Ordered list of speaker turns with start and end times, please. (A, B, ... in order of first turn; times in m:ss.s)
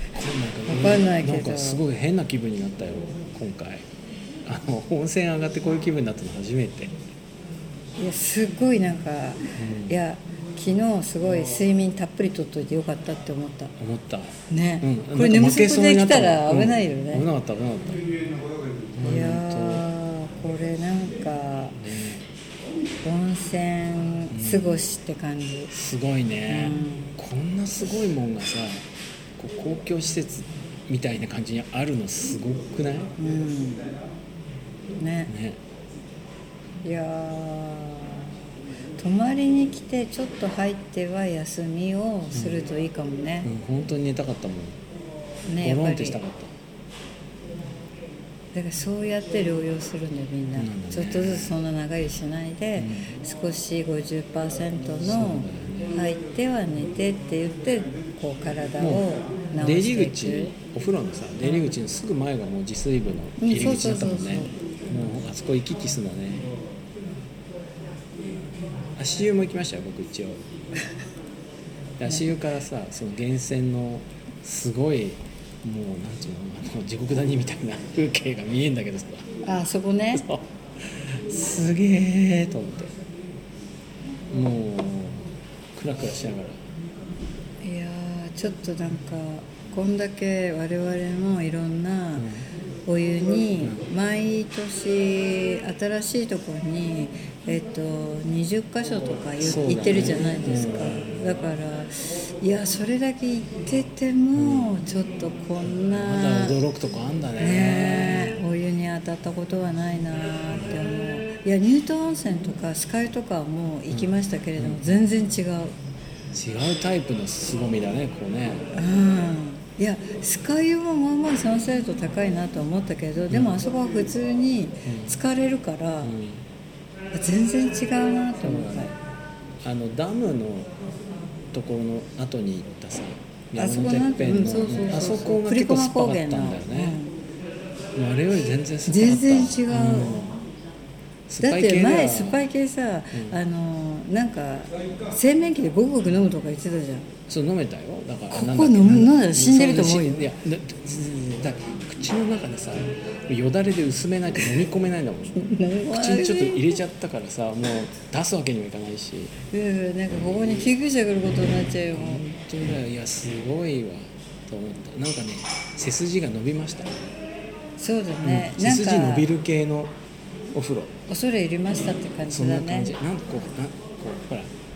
0:00.1-0:03.8 A
0:00.6-0:01.8 B
0:04.4-0:07.0 A
0:08.0-0:13.7 B
0:09.6-0:10.0 A
0:13.8-0:18.1 A
0:14.5-0:17.2 B
0:18.9-0:19.9 A
0:19.0-0:21.8 B
0:21.8-0:22.2 A
0:23.0-0:25.7 B
0:24.3-0:24.8 A
0:25.7-0:33.1 A
0:26.5-0:27.2 B
0:33.2-0:33.9 B
0:35.0-0:35.3 B
0:35.3-0:35.6 A
0:36.8-0:38.4 B
0:39.0-0:43.5 B
0:42.3-0:42.6 A
0:43.4-0:44.8 A
0:45.4-0:46.2 B
0:45.6-0:46.5 A
0:48.5-1:00.5 B
0:50.6-0:51.6 A
0:52.8-0:53.1 A
0:55.0-0:56.0 A
0:58.8-1:06.5 A
1:01.4-1:01.7 B
1:03.4-1:04.6 B
1:09.0-1:10.4 A
1:12.0-1:19.2 A
1:19.4-1:20.2 B
1:20.1-1:22.9 A
1:24.3-1:26.6 A
1:27.6-1:32.3 B
1:32.2-1:32.4 A
1:32.8-1:46.6 B
1:33.6-1:33.9 A
1:39.4-1:41.4 A
1:44.3-1:44.8 A
1:45.9-1:48.4 A
1:47.4-1:55.7 B
1:53.9-1:55.0 A
1:56.3-1:58.6 A
1:58.7-2:06.1 B
2:03.3-2:03.6 A
2:04.8-2:05.2 A
2:06.0-2:06.4 A
2:07.1-2:08.9 B
2:08.4-2:08.9 A
2:09.6-2:10.7 A
2:11.5-2:17.0 A
2:13.6-2:17.2 B
2:17.9-2:20.4 A
2:18.9-2:20.3 B
2:21.3-2:22.4 A
2:21.4-2:27.1 B
2:23.1-2:23.4 A
2:27.3-2:39.3 A
2:28.3-2:30.2 B
2:35.4-2:36.8 B
2:39.5-2:42.3 B
2:41.9-2:46.9 A
2:47.8-2:49.3 B
2:48.2-2:49.9 A
2:50.5-2:50.9 A
2:51.1-2:52.9 B
2:52.3-2:54.5 A